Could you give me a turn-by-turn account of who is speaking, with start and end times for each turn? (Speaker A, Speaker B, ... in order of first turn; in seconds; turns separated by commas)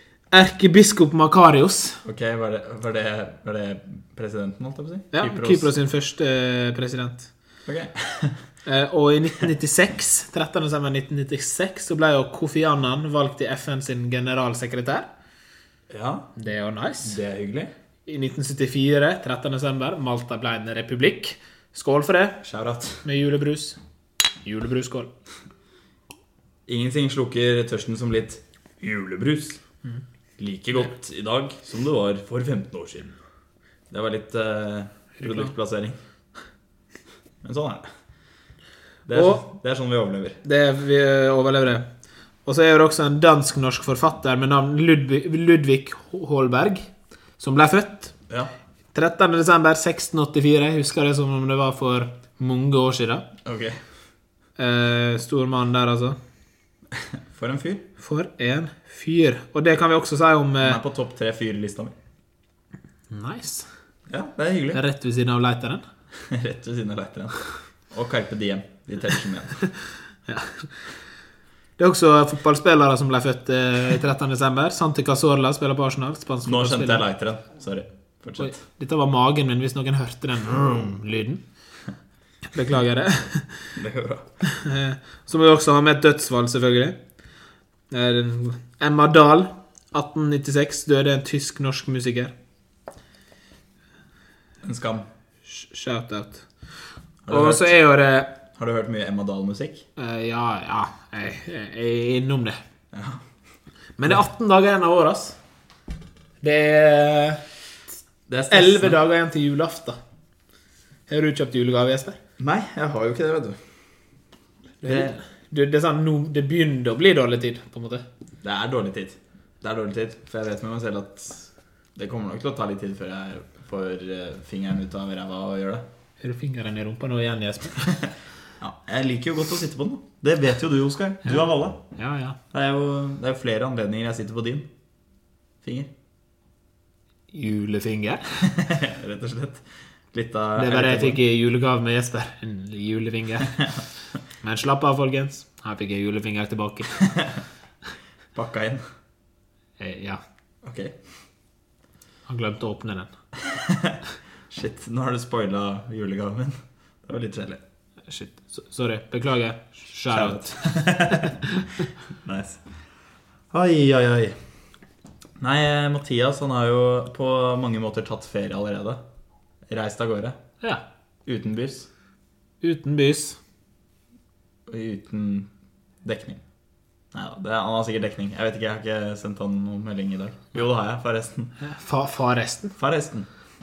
Speaker A: 0.3-2.0, Speaker B: 2.0-5.7, Speaker A: 5.1-7.3, Speaker B: 7.7-8.4, Speaker A: 8.6-15.1, Speaker B: 15.9-16.3, Speaker A: 16.4-17.2, Speaker B: 17.0-17.7, Speaker A: 18.1-22.4, Speaker B: 22.4-23.0, Speaker A: 23.0-23.8, Speaker A: 24.4-25.1, Speaker B: 26.7-29.6, Speaker B: 30.4-33.1, Speaker B: 33.9-36.0, Speaker A: 35.2-35.5, Speaker B: 37.4-37.8, Speaker B: 39.1-40.4, Speaker A: 39.1-39.4, Speaker A: 40.4-41.8, Speaker A: 42.5-48.1, Speaker A: 48.9-53.3, Speaker B: 53.4-53.8, Speaker A: 54.6-56.2, Speaker B: 56.9-57.8, Speaker A: 58.0-60.8, Speaker B: 60.6-61.9, Speaker A: 63.1-63.7, Speaker B: 64.1-64.8, Speaker A: 64.7-65.8, Speaker B: 66.2-67.4, Speaker B: 67.9-69.6, Speaker A: 70.3-70.8, Speaker A: 71.8-77.0, Speaker B: 76.4-78.5, Speaker A: 78.4-81.4, Speaker A: 82.5-83.7, Speaker B: 83.8-84.3, Speaker A: 84.4-87.0, Speaker A: 87.9-92.3, Speaker B: 94.6-95.1, Speaker A: 95.5-96.5, Speaker B: 97.2-97.8, Speaker A: 97.3-98.3, Speaker B: 98.5-99.8, Speaker A: 100.0-102.6, Speaker B: 102.9-103.2, Speaker A: 104.0-105.4, Speaker A: 106.4-107.4, Speaker B: 108.3-109.0, Speaker A: 108.5-110.0, Speaker A: 111.1-112.2, Speaker B: 112.4-113.6, Speaker A: 114.8-118.0, Speaker B: 114.8-115.2, Speaker B: 118.4-125.8, Speaker A: 126.2-128.1, Speaker B: 128.6-131.8, Speaker A: 131.9-132.4, Speaker B: 132.5-134.7, Speaker B: 135.6-135.9, Speaker A: 137.3-138.4, Speaker B: 138.4-141.2, Speaker A: 140.6-143.7, Speaker A: 144.4-147.0, Speaker B: 147.0-147.4, Speaker B: 148.3-148.8, Speaker A: 149.8-150.2, Speaker B: 150.6-151.0, Speaker A: 152.3-153.1, Speaker B: 153.4-154.0, Speaker B: 154.5-157.6, Speaker A: 158.1-161.8, Speaker B: 160.1-161.4, Speaker B: 162.2-162.6, Speaker B: 163.5-164.3, Speaker B: 165.4-169.0, Speaker B: 169.7-170.4, Speaker B: 171.2-171.9, Speaker A: 172.6-173.4, Speaker B: 174.7-175.5, Speaker B: 176.0-176.4, Speaker B: 177.1-181.5, Speaker A: 181.6-182.7, Speaker B: 182.8-183.3